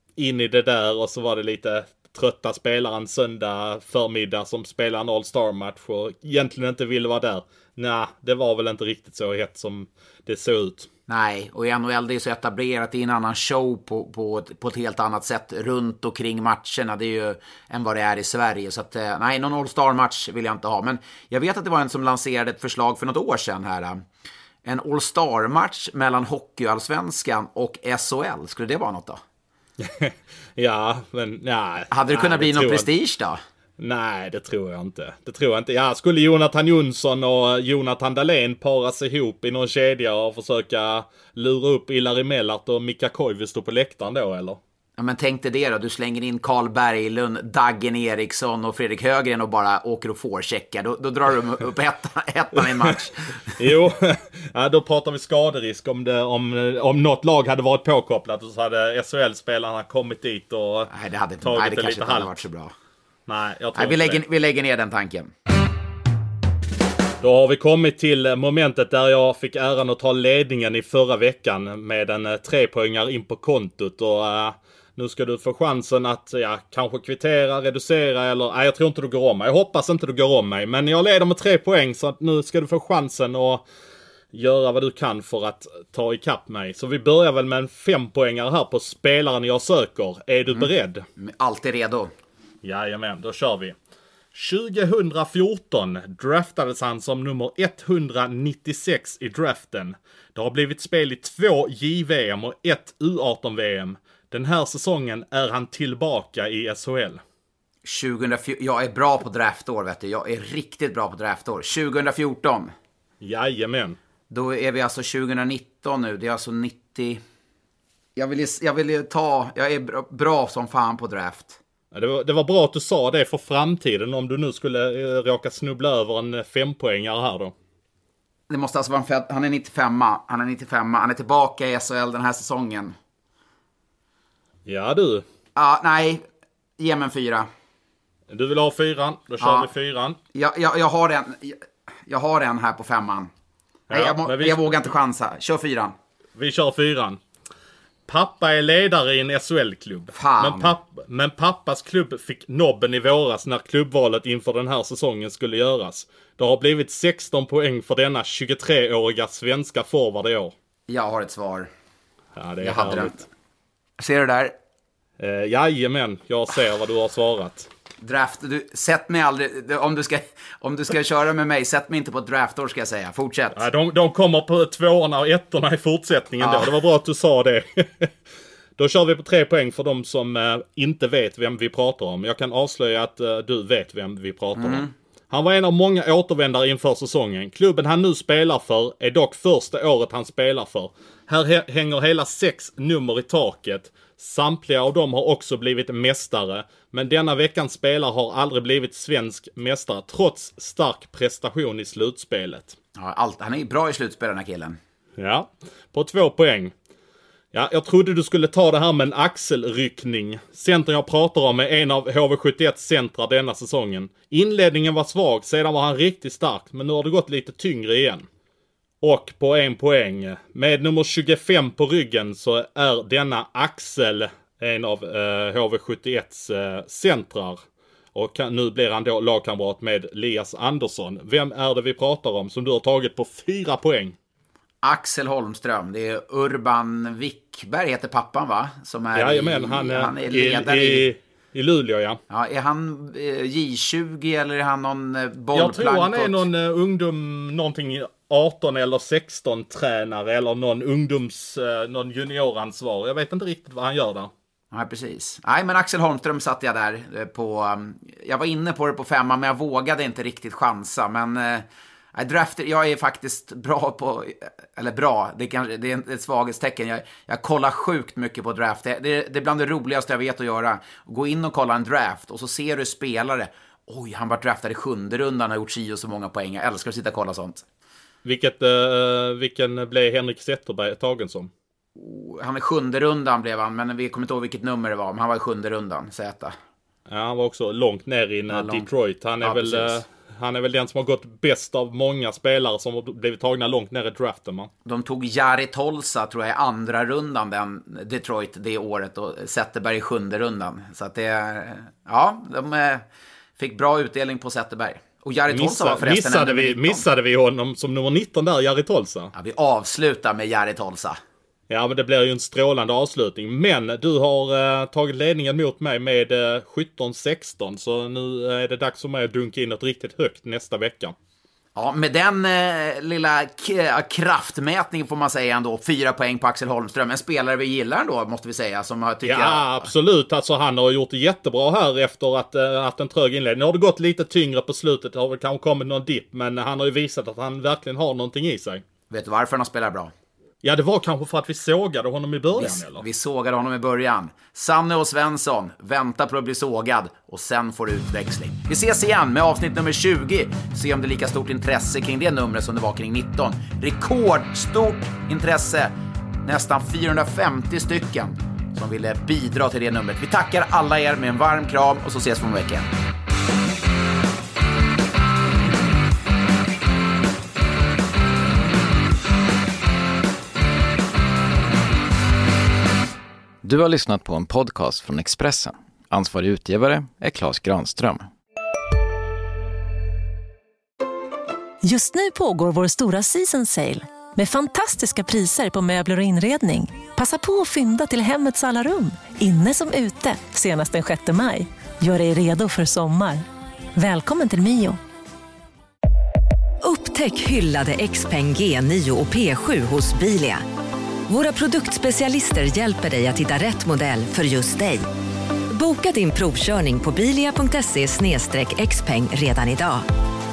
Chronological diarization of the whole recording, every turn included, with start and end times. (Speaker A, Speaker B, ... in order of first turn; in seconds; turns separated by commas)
Speaker A: 0.2-10.9, Speaker B: 11.1-24.0, Speaker B: 24.6-29.2, Speaker A: 29.8-32.9, Speaker B: 31.9-33.4, Speaker A: 33.8-44.6, Speaker B: 45.0-53.6, Speaker A: 52.6-52.9, Speaker A: 53.5-60.9, Speaker B: 60.9-62.7, Speaker A: 61.4-62.4, Speaker A: 63.3-64.2, Speaker B: 63.7-65.3, Speaker A: 67.2-83.6, Speaker A: 84.3-91.0, Speaker B: 90.5-92.1, Speaker A: 92.6-93.7, Speaker A: 94.3-107.2, Speaker B: 107.8-112.7, Speaker A: 113.2-114.0, Speaker B: 114.3-117.2, Speaker B: 118.2-121.6, Speaker A: 121.9-127.5, Speaker B: 128.5-132.9, Speaker A: 134.7-135.2, Speaker B: 135.5-136.2, Speaker B: 136.8-137.5, Speaker A: 138.3-140.2, Speaker B: 139.4-139.7, Speaker B: 140.3-143.3, Speaker A: 143.9-144.6, Speaker B: 143.9-145.9, Speaker A: 146.3-147.2, Speaker A: 148.1-160.5, Speaker B: 150.1-150.8, Speaker B: 160.9-161.7, Speaker A: 162.3-163.3, Speaker B: 162.6-163.2, Speaker B: 164.0-164.5, Speaker A: 165.2-167.7, Speaker B: 168.0-173.7, Speaker A: 173.5-178.1, Speaker B: 176.4-176.8, Speaker A: 178.8-202.8, Speaker B: 184.6-184.9, Speaker B: 202.9-204.8, Speaker A: 205.2-206.7, Speaker A: 207.5-218.3, Speaker A: 219.0-227.6, Speaker A: 228.1-234.2, Speaker B: 234.8-241.1, Speaker A: 239.1-242.2, Speaker B: 242.3-246.5, Speaker A: 245.5-254.3, Speaker B: 254.7-277.6, Speaker A: 278.2-281.5, Speaker B: 281.9-286.6, Speaker A: 287.1-294.7, Speaker B: 288.5-288.9, Speaker B: 289.4-290.0, Speaker B: 294.8-303.1, Speaker B: 303.6-307.1, Speaker A: 305.5-309.3, Speaker B: 309.3-311.2, Speaker A: 311.7-321.1, Speaker B: 321.7-329.9, Speaker A: 329.2-338.8, Speaker B: 339.1-340.1, Speaker A: 340.6-343.0, Speaker B: 342.6-355.9, Speaker B: 356.4-362.9, Speaker C: 373.6-378.3, Speaker D: 381.8-395.0, Speaker E: 396.8-400.6, Speaker E: 401.3-405.1, Speaker E: 405.7-410.0